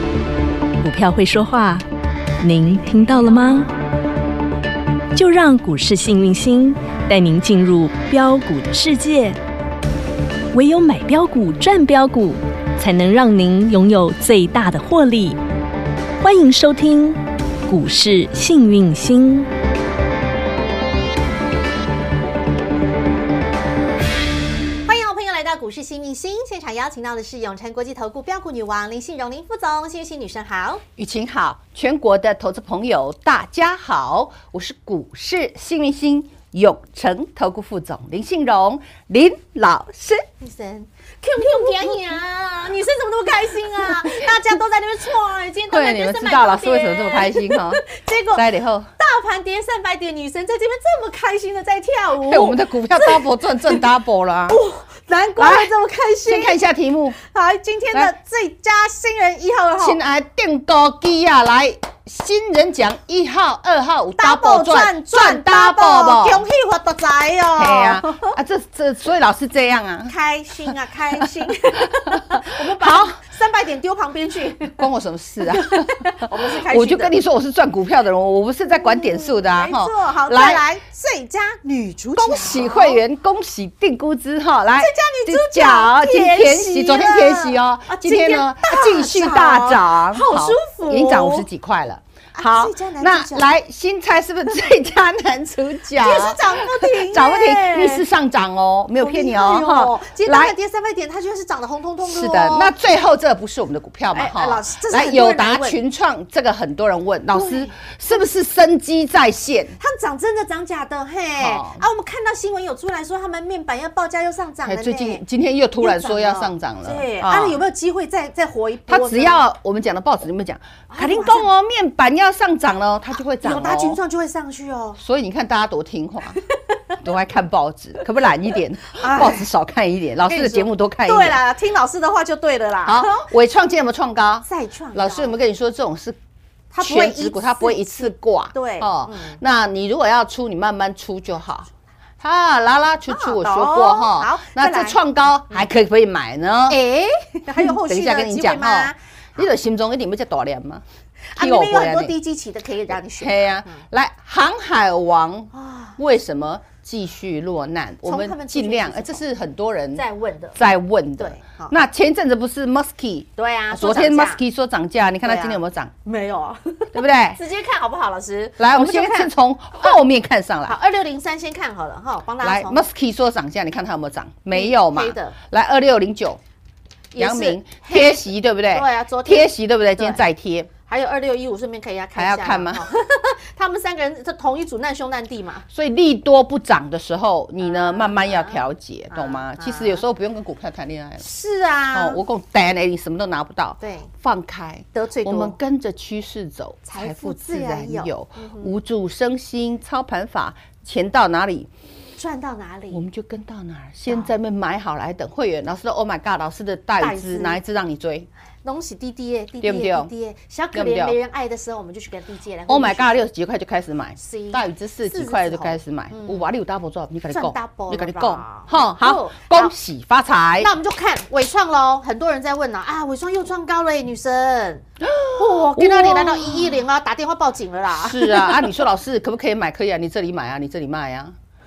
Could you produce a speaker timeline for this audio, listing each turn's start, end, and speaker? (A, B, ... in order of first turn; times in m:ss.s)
0:00.8-0:01.8 A
0:02.4-0:03.7 A
0:05.1-0:09.4 A
0:10.5-0:15.4 A
0:16.2-0:19.5 A
0:24.8-0:30.8 B
0:31.0-0:40.2 C
0:40.4-0:48.5 B
0:45.7-0:47.8 C
0:48.3-0:48.9 C
0:49.0-0:53.8 B
0:52.2-0:54.6 C
0:54.5-0:56.6 B
0:55.4-0:55.7 C
0:56.2-0:57.2 C
0:57.2-1:00.0 B
0:59.8-1:06.4 C
1:04.2-1:08.3 B
1:07.5-1:10.1 C
1:10.0-1:14.8 B
1:10.7-1:11.2 C
1:11.9-1:13.2 C
1:14.7-1:20.6 C
1:15.4-1:17.1 B
1:18.7-1:23.0 B
1:22.2-1:40.5 C
1:24.8-1:31.4 B
1:32.3-1:33.5 B
1:36.0-1:38.0 B
1:39.0-1:42.7 B
1:42.0-1:49.8 C
1:44.1-1:45.8 B
1:47.3-1:47.8 B
1:49.8-1:55.2 B
1:51.4-1:51.8 C
1:54.6-1:57.6 C
1:55.8-1:59.4 B
1:58.9-2:04.0 C
2:00.9-2:01.5 B
2:03.4-2:05.0 B
2:05.0-2:06.4 C
2:07.0-2:11.4 C
2:08.9-2:09.4 B
2:10.2-2:13.3 B
2:12.8-2:16.2 C
2:14.4-2:15.4 B
2:16.7-2:19.4 B
2:16.8-2:26.8 C
2:23.1-2:25.0 B
2:26.7-2:29.4 B
2:27.5-2:30.8 C
2:31.3-2:33.8 B
2:31.4-2:32.2 C
2:32.9-2:40.0 C
2:35.5-2:36.0 B
2:38.0-2:39.2 B
2:39.9-2:40.6 B
2:40.6-2:45.9 C
2:41.2-2:41.8 B
2:43.4-2:44.4 B
2:45.2-2:49.9 B
2:46.9-2:47.4 C
2:48.6-2:50.8 C
2:50.7-2:52.8 B
2:52.4-2:56.4 C
2:54.5-2:55.4 B
2:57.1-3:00.2 B
2:57.2-3:00.7 C
3:00.8-3:05.6 B
3:02.1-3:02.8 C
3:05.7-3:11.2 C
3:07.6-3:10.0 B
3:11.2-3:12.2 B
3:11.9-3:21.7 C
3:13.8-3:14.1 B
3:14.9-3:15.6 B
3:16.8-3:18.7 B
3:22.2-3:23.0 B
3:22.9-3:28.3 C
3:27.0-3:27.6 B
3:28.6-3:33.2 B
3:29.6-3:30.1 C
3:30.7-3:31.2 C
3:32.7-3:40.7 C
3:34.2-3:36.5 B
3:37.3-3:39.7 B
3:40.6-3:48.8 B
3:45.0-3:46.8 C
3:47.9-3:51.3 C